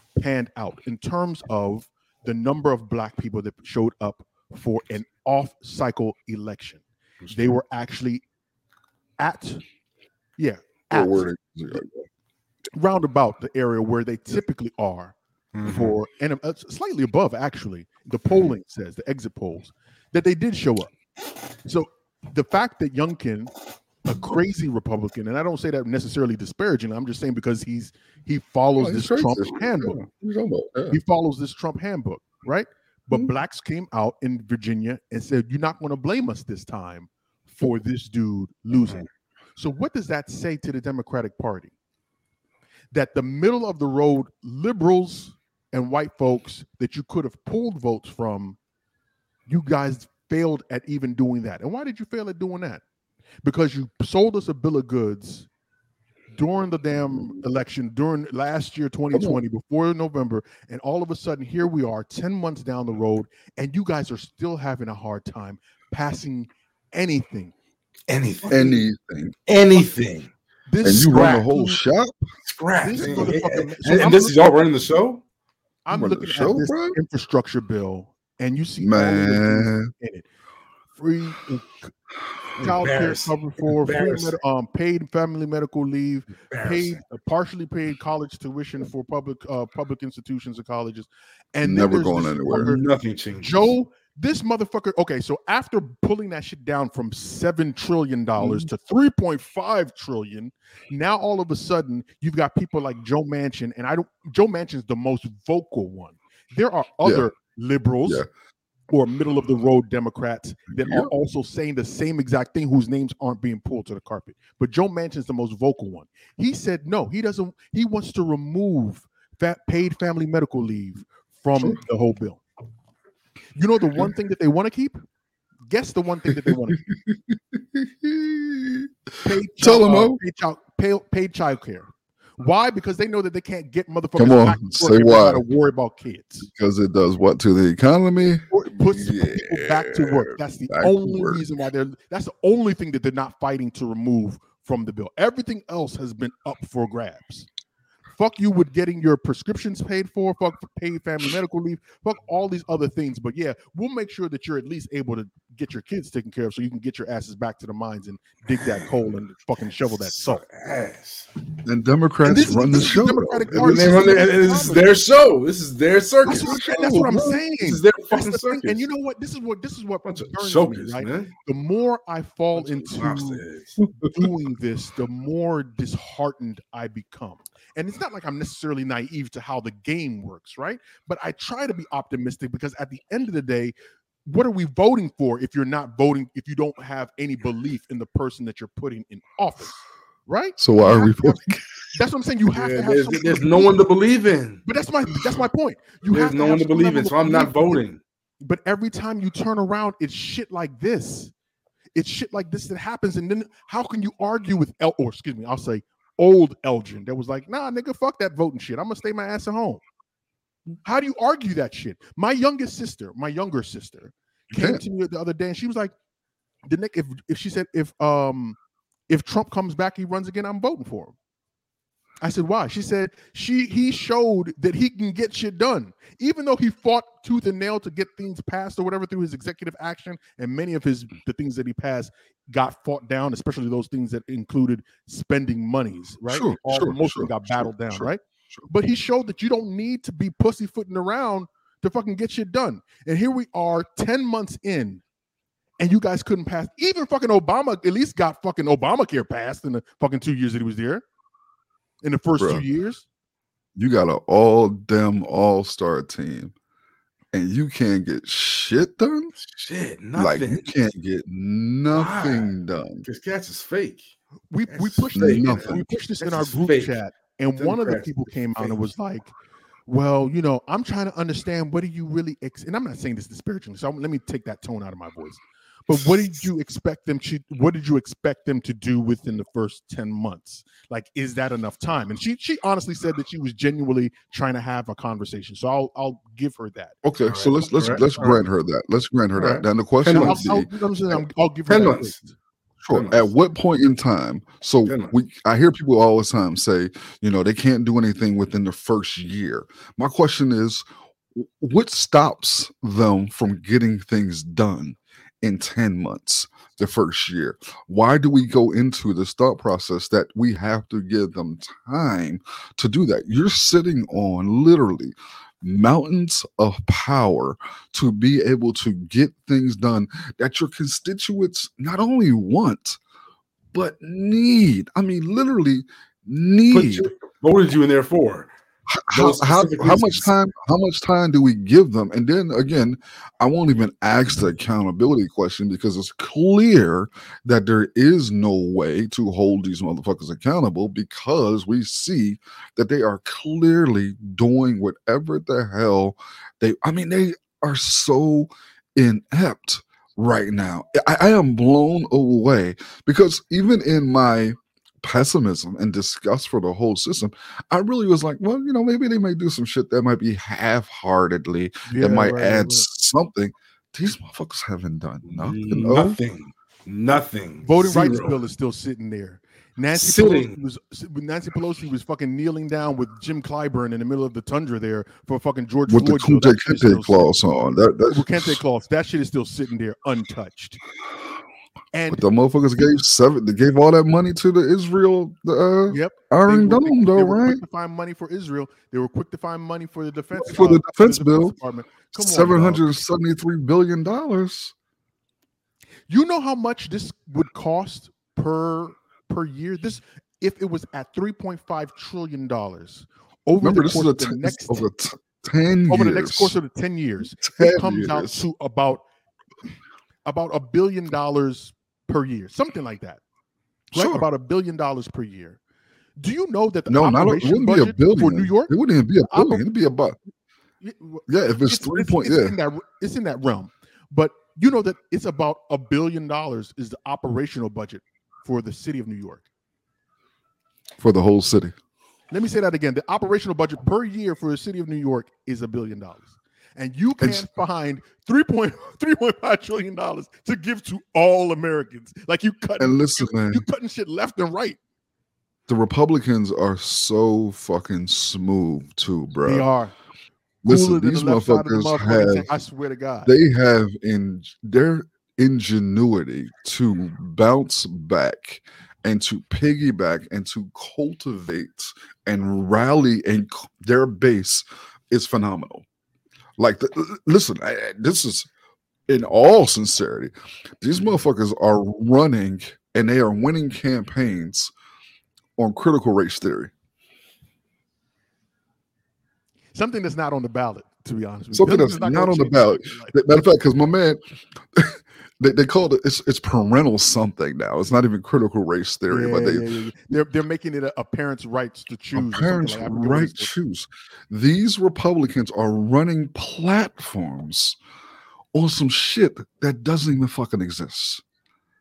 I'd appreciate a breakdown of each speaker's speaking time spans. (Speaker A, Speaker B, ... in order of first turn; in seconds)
Speaker A: 0.2-8.2, 9.2-9.6, 10.4-11.3, 12.8-20.9, 21.6-23.5, 24.0-30.0, 30.9-39.0, 39.6-41.7, 42.9-48.6, 49.5-52.8, 53.4-55.5, 56.3-67.5, 70.7-71.8, 72.8-74.4, 75.9-80.3, 81.0-81.9, 82.6-92.9, 93.4-108.2, 108.9-122.4, 123.6-125.0, 125.7-126.9, 129.2-136.5, 138.5-147.5, 148.2-160.4, 162.2-165.0, 166.2-173.4, 174.0-183.7, 184.3-189.8, 190.3-193.8, 194.7-197.8, 198.4-201.3, 201.9-209.8, 210.8-215.9, 216.7-218.6, 219.1-221.2, 222.2-245.0, 245.8-251.0, 252.0-253.1, 264.5-269.3, 269.9-287.0, 290.1-292.3, 361.9-362.9, 367.6-377.4, 378.1-380.8, 381.9-382.3, 385.9-392.8, 396.1-404.9, 405.9-409.0, 410.3-413.2, 413.9-415.6, 416.2-418.7, 419.3-419.6, 420.8-429.4, 432.3-444.8, 449.4-449.9, 450.6-453.3, 479.7-483.2, 489.1-493.5
Speaker B: 7.2-7.5, 15.5-16.0, 68.1-68.8, 69.5-70.3, 70.9-71.5, 72.5-75.2, 82.6-84.4, 86.5-87.0, 92.5-93.7, 160.0-161.3, 163.5-168.8, 170.0-171.3, 172.6-173.8, 192.5-194.6, 196.1-198.0, 259.4-260.7, 261.9-262.5, 263.1-264.1, 264.7-267.0, 267.6-268.8, 287.2-288.4, 289.4-290.5, 291.7-292.2, 292.9-293.3, 294.9-295.1, 326.7-328.5, 329.1-330.3, 365.3-368.4, 369.9-370.6
Speaker C: 10.9-12.1, 28.8-31.0, 59.1-59.4, 68.5-69.4, 70.8-72.2, 73.1-73.3, 75.9-77.0, 78.8-79.9, 91.6-92.7, 98.4-98.7, 110.7-111.1, 126.3-128.9, 129.6-130.2, 134.2-135.4, 136.4-141.4, 161.7-164.2, 166.2-167.4, 190.6-191.6, 214.5-214.8, 236.3-238.7, 252.4-252.6, 253.8-256.5, 257.3-259.3, 260.2-263.1, 265.2-265.8, 287.0-290.7, 292.8-323.0, 323.7-327.1, 328.9-366.2, 375.9-378.6, 382.1-387.6, 390.4-391.6, 392.1-394.7, 403.6-406.6, 407.4-408.4, 413.9-414.2, 416.9-420.2, 421.3-422.6, 431.0-431.8, 437.2-437.5, 442.8-443.7, 445.7-449.7, 450.6-452.5, 453.3-465.9, 466.6-468.5, 469.1-474.7, 475.6-476.7, 481.5-484.2, 484.7-489.7, 492.1-497.8, 498.5-501.2